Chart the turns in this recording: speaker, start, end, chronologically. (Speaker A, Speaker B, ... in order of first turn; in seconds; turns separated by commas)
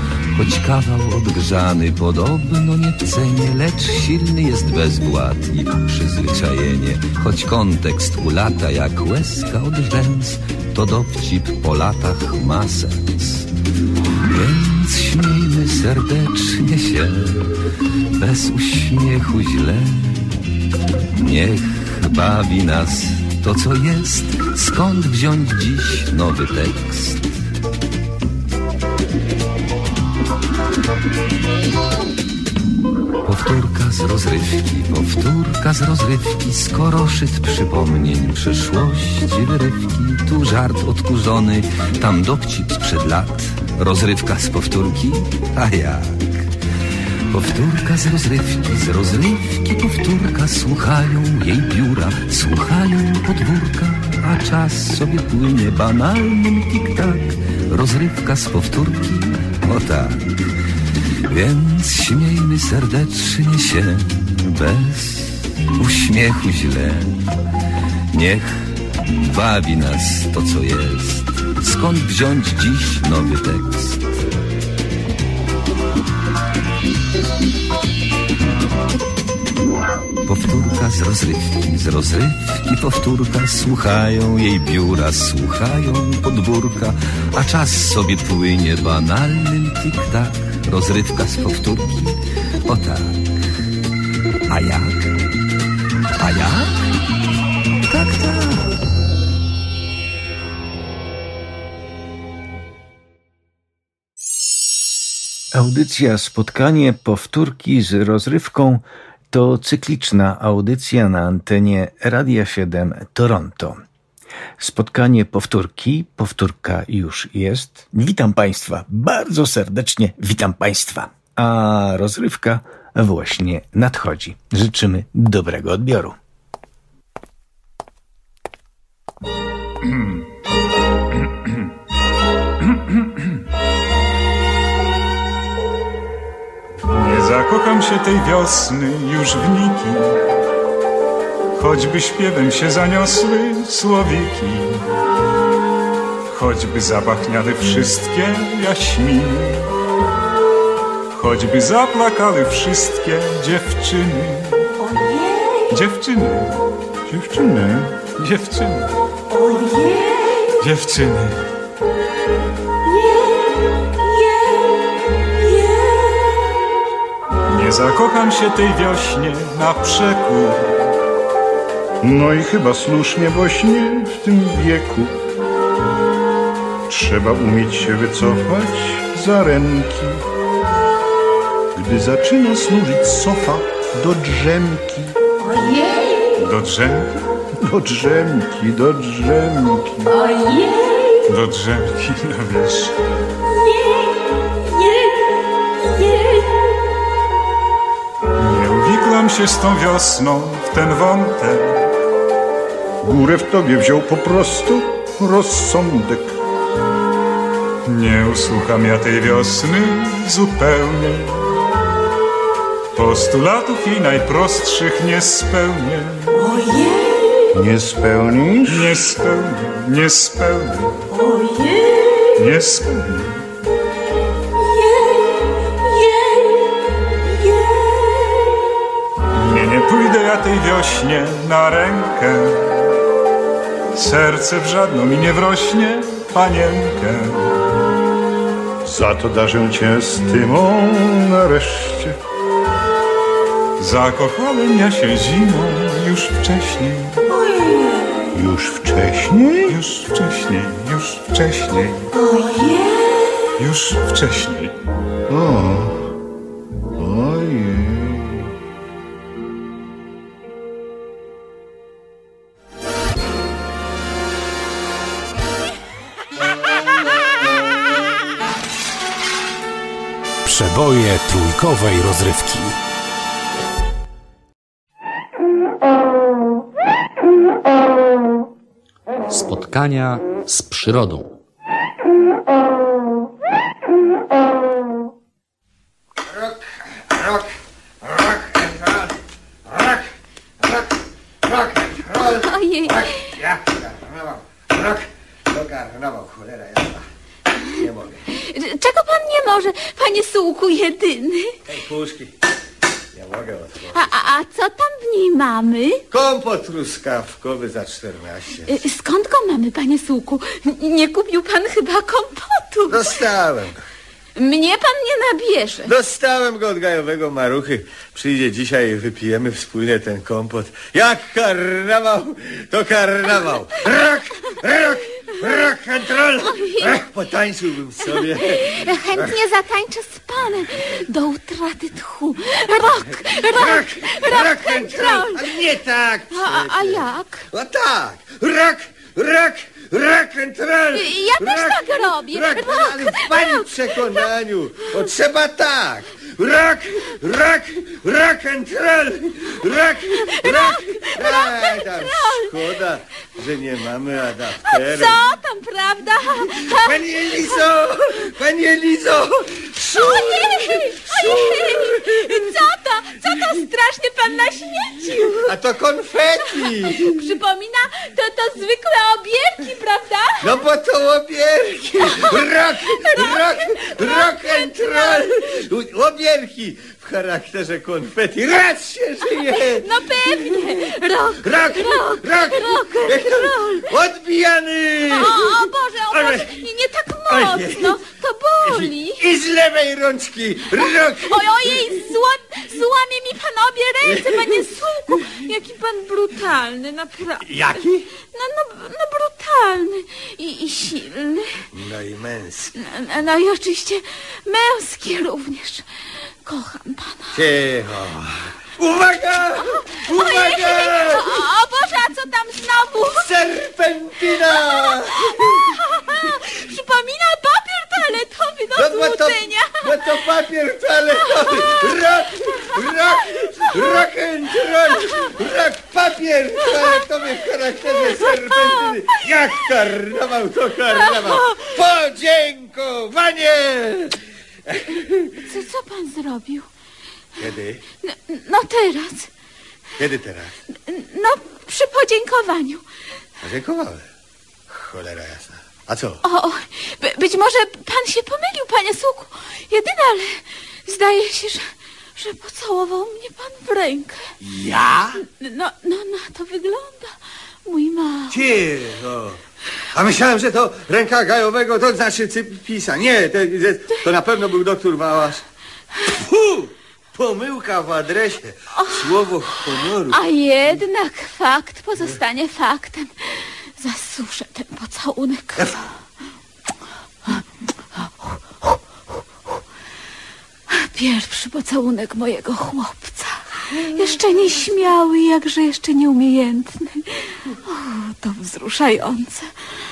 Speaker A: 0.3-13.5, Speaker A: 14.2-17.5, Speaker A: 18.1-20.4, Speaker A: 21.1-27.3, Speaker A: 33.2-46.5, Speaker A: 47.3-60.3, Speaker A: 61.3-67.2, Speaker A: 68.1-74.2, Speaker A: 80.2-93.3, Speaker A: 94.5-95.1, Speaker A: 96.2-96.8, Speaker A: 97.8-98.8, Speaker B: 105.5-113.8, Speaker B: 114.6-126.1, Speaker C: 129.9-130.2, Speaker C: 132.7-133.3, Speaker C: 136.9-140.2, Speaker C: 141.5-144.8, Speaker C: 146.3-149.7, Speaker C: 151.1-154.7, Speaker C: 155.7-156.5, Speaker D: 157.1-157.9, Speaker C: 158.0-158.9, Speaker C: 160.6-161.4, Speaker C: 167.5-170.7, Speaker D: 172.0-175.2, Speaker D: 176.9-180.2, Speaker D: 181.7-185.2, Speaker E: 185.6-185.9, Speaker C: 186.4-187.1, Speaker D: 187.6-190.1, Speaker C: 191.2-192.9, Speaker C: 198.3-201.8, Speaker D: 203.0-206.3, Speaker C: 207.8-211.4, Speaker C: 212.9-216.4, Speaker E: 216.5-216.8, Speaker D: 217.5-219.1, Speaker C: 218.7-221.0, Speaker C: 222.3-223.4, Speaker C: 229.3-232.8, Speaker C: 233.9-237.5, Speaker D: 238.8-242.2, Speaker C: 243.8-247.2, Speaker D: 248.3-249.8, Speaker C: 249.7-252.1, Speaker C: 253.6-254.7, Speaker D: 255.3-256.1, Speaker D: 257.0-258.4, Speaker F: 270.4-272.8, Speaker G: 279.3-281.3, Speaker H: 286.2-289.1, Speaker H: 289.6-297.1, Speaker E: 292.3-293.2, Speaker H: 297.7-298.2, Speaker E: 298.4-301.5, Speaker H: 301.7-302.3, Speaker H: 303.1-304.1, Speaker E: 303.9-306.0, Speaker H: 306.1-308.8, Speaker E: 308.7-313.1, Speaker H: 312.9-313.8, Speaker E: 314.4-315.9, Speaker H: 315.8-329.4, Speaker E: 326.5-327.0, Speaker E: 328.6-335.5, Speaker H: 332.8-355.2, Speaker E: 336.3-337.4, Speaker E: 340.9-343.7, Speaker E: 350.2-352.6, Speaker E: 354.6-357.0, Speaker H: 356.5-362.6, Speaker E: 359.9-365.6, Speaker H: 365.1-367.2, Speaker E: 366.6-370.5, Speaker H: 370.4-380.8, Speaker E: 372.0-375.3, Speaker E: 379.4-383.9, Speaker H: 381.4-386.6, Speaker E: 385.1-389.2, Speaker H: 387.3-388.0, Speaker H: 388.6-392.1, Speaker E: 391.1-397.7, Speaker H: 394.0-394.7, Speaker H: 397.4-398.1, Speaker E: 398.3-401.6, Speaker H: 401.7-402.7, Speaker E: 402.8-405.8, Speaker E: 406.4-407.4, Speaker H: 407.3-411.4, Speaker E: 410.0-413.3, Speaker H: 413.1-415.7, Speaker E: 414.5-420.2, Speaker H: 418.7-435.4, Speaker E: 421.3-421.7, Speaker E: 426.7-427.0, Speaker E: 430.9-431.7, Speaker E: 435.5-436.7, Speaker H: 437.4-437.8, Speaker E: 438.1-439.3, Speaker H: 440.0-440.5, Speaker E: 440.9-442.8, Speaker H: 443.4-444.0, Speaker H: 444.7-446.2, Speaker E: 446.2-454.3, Speaker H: 454.4-455.2, Speaker E: 455.4-458.4, Speaker H: 458.3-459.4, Speaker H: 459.9-465.4, Speaker H: 466.1-470.2, Speaker E: 468.8-469.1, Speaker E: 470.1-475.8, Speaker E: 477.9-478.8, Speaker E: 480.7-489.5